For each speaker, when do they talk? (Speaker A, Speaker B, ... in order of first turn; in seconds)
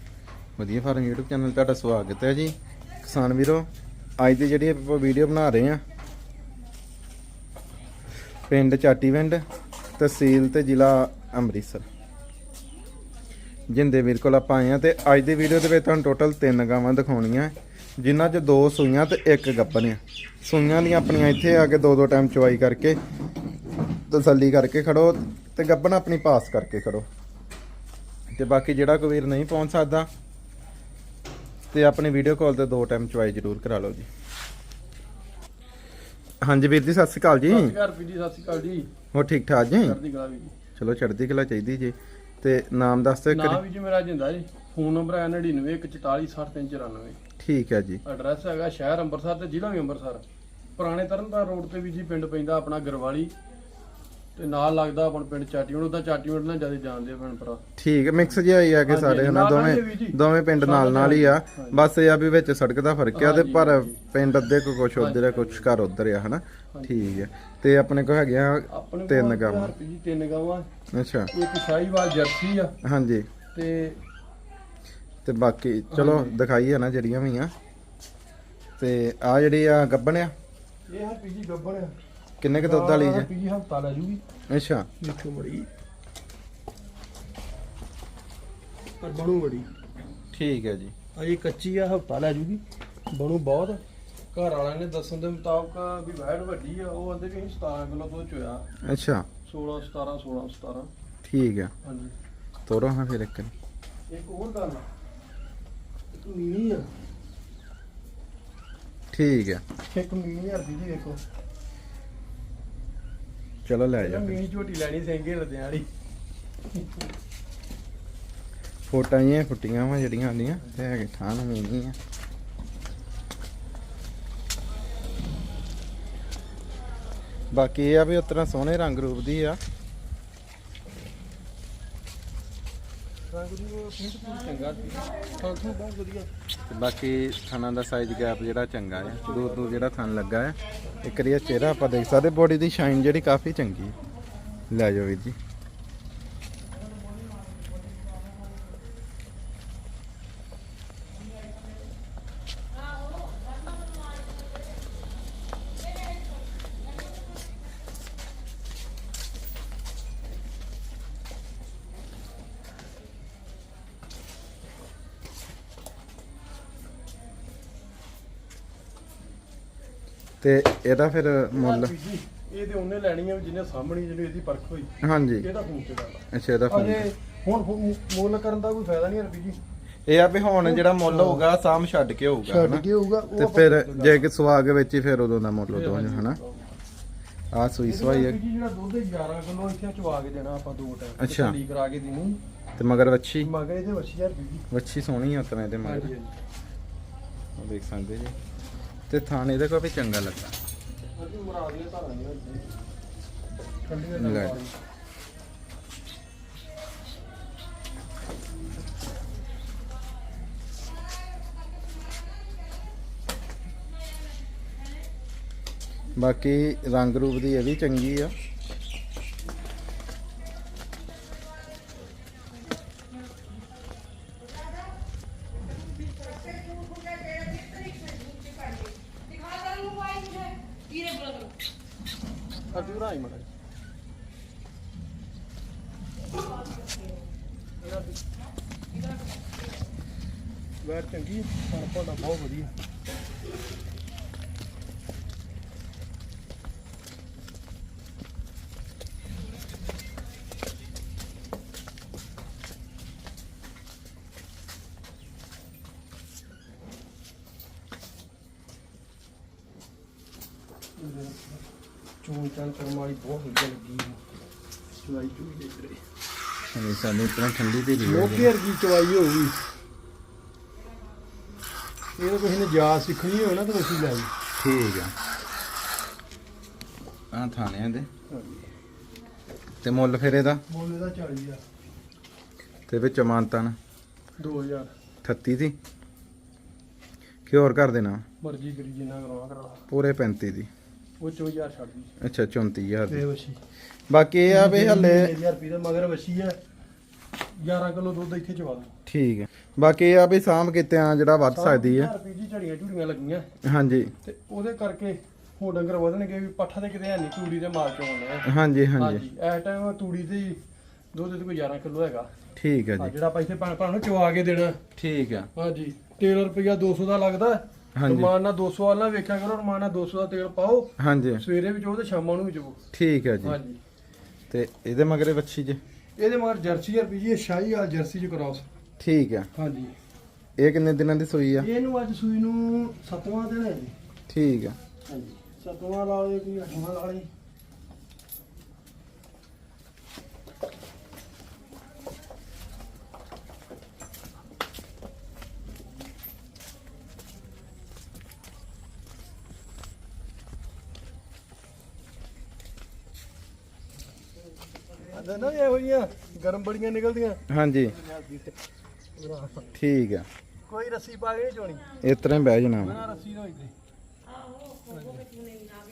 Speaker A: 0.6-5.8, 8.5-9.4, 10.0-11.8, 13.7-23.0, 24.1-27.1, 28.3-30.1, 31.7-34.0, 36.4-37.7, 39.1-40.0, 40.8-43.6, 47.4-48.0, 57.8-69.7, 70.9-71.3, 72.8-73.3, 75.2-77.5, 78.8-80.3, 82.4-83.3, 84.5-84.9, 90.3-90.9, 98.8-99.3, 101.2-101.7, 102.7-103.5, 109.1-109.6, 113.6-114.4, 118.9-122.0, 127.5-129.6, 136.6-144.0, 144.7-145.3, 170.4-171.9, 175.0-175.5, 176.3-177.1, 180.1-186.4, 187.5-188.4, 191.2-191.5, 192.8-193.5, 194.7-196.1, 197.6-198.3, 199.1-200.5, 204.2-204.6, 216.2-218.3, 266.7-268.5, 274.6-275.1, 277.3-278.1, 279.8-280.6, 282.9-283.8, 285.2-285.8, 287.5-288.2, 289.9-290.7, 292.2-293.2, 294.1-295.3, 299.1-302.1, 303.6-304.1, 308.4-309.2, 312.6-313.1, 315.0-315.5, 317.9-318.3, 321.0-321.4, 322.9-323.6, 324.5-325.8, 329.0-329.5, 330.6-331.7, 334.3-334.8, 357.5-357.9, 359.8-360.2, 362.0-363.0
Speaker B: 37.5-38.9, 39.8-40.5, 43.3-47.2, 48.0-50.2, 50.8-53.3, 54.4-57.6, 58.9-61.8, 63.1-64.0, 65.0-65.7, 68.7-70.7, 71.3-72.7, 73.5-74.0, 75.9-76.4, 80.9-81.9, 82.6-84.2, 85.0-85.7, 89.0-89.7, 91.2-93.8, 94.3-98.7, 99.5-100.9, 101.8-102.1, 104.1-104.8, 106.1-106.9, 109.9-111.2, 113.9-115.9, 116.7-117.0, 133.3-136.3, 139.2-139.5, 171.5-179.6, 180.6-181.4, 182.5-184.3, 185.7-186.7, 187.9-192.4, 193.4-194.7, 195.8-196.3, 201.2-202.8, 203.8-204.7, 232.7-233.5, 237.8-238.2, 240.8-242.7, 261.0-261.6, 262.2-264.2, 265.0-266.0, 268.0-269.6, 272.2-274.3, 278.3-278.7, 280.7-281.6, 284.4-284.9, 288.4-289.8, 291.2-292.1, 293.1-293.6, 294.5-296.6, 297.6-298.9, 301.5-303.5, 304.2-310.6, 311.1-312.3, 313.0-314.8, 315.5-322.8, 323.4-323.8, 326.2-328.7, 329.5-329.9, 331.6-333.9, 335.1-337.3, 355.1-357.4, 358.0-358.5, 359.2-359.6, 360.7-361.9, 362.8-363.7, 364.9-365.3